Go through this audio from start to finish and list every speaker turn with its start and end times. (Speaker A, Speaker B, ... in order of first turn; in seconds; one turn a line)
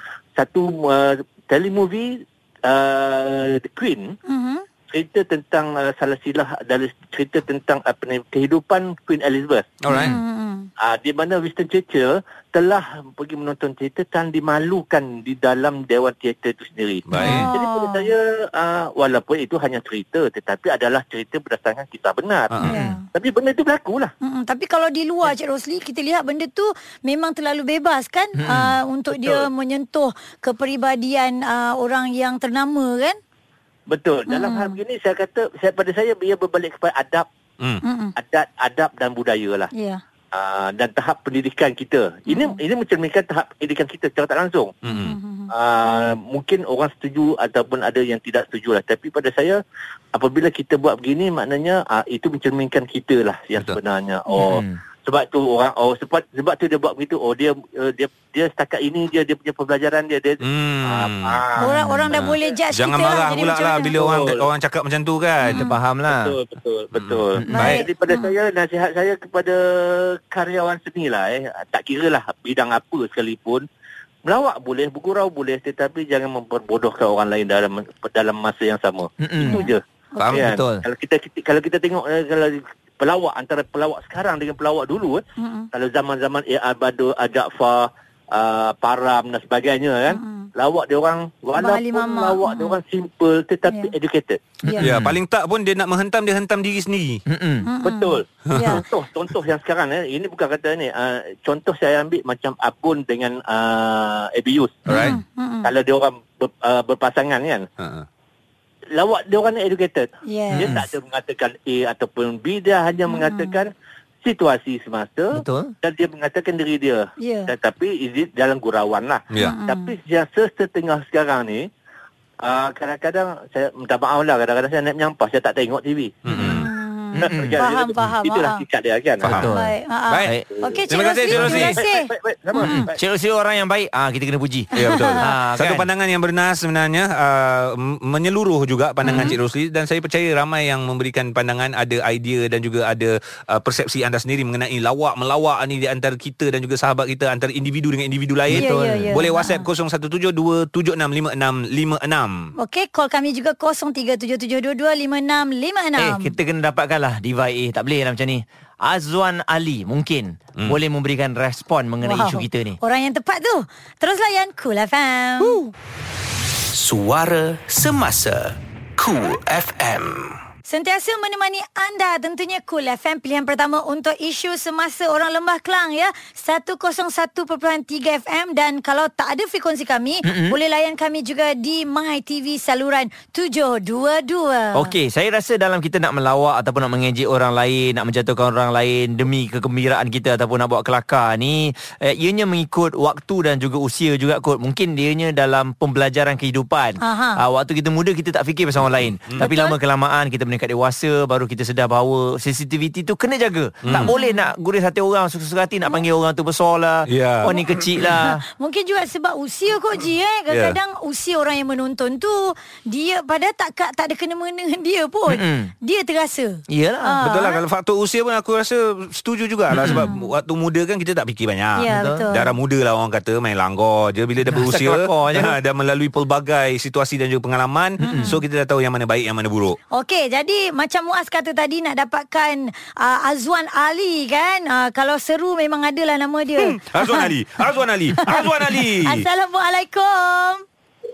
Speaker A: 0.3-4.2
Speaker B: 4.3-4.6
Speaker A: 4.9-9.8
Speaker C: 9.8-10.2
Speaker B: 10.0-10.7
Speaker A: 10.8-24.1
Speaker C: 17.1-17.5
Speaker B: 17.2-18.1
Speaker D: 22.6-23.0
Speaker B: 22.7-23.0
Speaker B: 24.2-33.2
Speaker D: 28.4-28.7
Speaker A: 33.9-37.3
Speaker B: 34.3-34.7
Speaker B: 37.8-38.1
Speaker A: 38.2-39.7
Speaker B: 39.7-40.0
Speaker A: 40.3-44.8
Speaker B: 42.3-42.6
Speaker C: 44.8-45.2
Speaker B: 44.9-45.5
Speaker A: 45.5-49.6
Speaker A: 50.1-61.9
Speaker D: 54.3-54.8
Speaker C: 60.4-61.4
Speaker B: 61.6-63.9
Speaker C: 62.1-65.6
Speaker A: 63.9-64.4
Speaker D: 65.4-66.3
Speaker A: 66.1-73.6
Speaker C: 66.9-67.8
Speaker D: 67.4-67.8
Speaker B: 67.5-68.3
Speaker A: 74.2-79.8
Speaker D: 79.2-79.6
Speaker B: 79.4-80.4
Speaker D: 80.3-80.8
Speaker A: 80.3-94.4
Speaker B: 85.4-85.7
Speaker B: 90.1-90.5
Speaker B: 91.6-92.8
Speaker D: 94.7-95.2
Speaker C: 94.8-97.2
Speaker D: 97.3-97.7
Speaker B: 97.6-98.8
Speaker A: 97.8-104.9
Speaker C: 98.5-98.8
Speaker C: 104.9-105.2
Speaker B: 104.9-105.7
Speaker A: 105.6-107.7
Speaker C: 107.8-108.0
Speaker A: 108.9-113.7
Speaker B: 110.2-110.7
Speaker D: 110.5-110.9
Speaker B: 113.1-113.5
Speaker A: 114.2-121.7
Speaker D: 115.3-115.7
Speaker B: 117.2-117.5
Speaker C: 119.3-119.5
Speaker B: 119.4-119.9
Speaker A: 122.4-126.3
Speaker C: 126.2-126.7
Speaker D: 126.3-126.6
Speaker B: 126.4-128.6
Speaker D: 127.1-127.5
Speaker A: 127.2-129.4
Speaker C: 129.2-129.5
Speaker D: 129.2-130.4
Speaker B: 129.4-132.1
Speaker C: 130.1-130.3
Speaker C: 130.9-131.8
Speaker A: 131.3-133.0
Speaker D: 132.6-134.7
Speaker C: 134.7-152.5
Speaker B: 134.8-135.2
Speaker D: 135.2-135.8
Speaker D: 139.0-139.3
Speaker B: 139.1-139.3
Speaker D: 148.5-149.1
Speaker B: 148.5-149.6
Speaker B: 152.6-156.3
Speaker D: 156.0-162.8
Speaker B: 162.0-165.7
Speaker E: 166.7-170.4
Speaker B: 170.7-184.9
Speaker D: 180.2-180.6
Speaker D: 184.7-208.4
Speaker B: 197.0-197.4
Speaker B: 199.4-199.7
Speaker C: 203.8-204.1
Speaker B: 203.9-204.5
Speaker C: 207.1-208.0
Speaker B: 208.1-217.6
Speaker C: 210.5-210.8
Speaker D: 215.3-215.7
Speaker D: 216.7-217.2
Speaker C: 217.2-229.8
Speaker D: 219.7-220.1
Speaker B: 219.8-220.3
Speaker B: 221.8-222.5
Speaker D: 221.9-222.3
Speaker D: 224.4-225.6
Speaker B: 228.0-228.3
Speaker D: 228.0-228.3
Speaker B: 229.9-237.3
Speaker C: 236.6-239.2
Speaker B: 238.2-240.6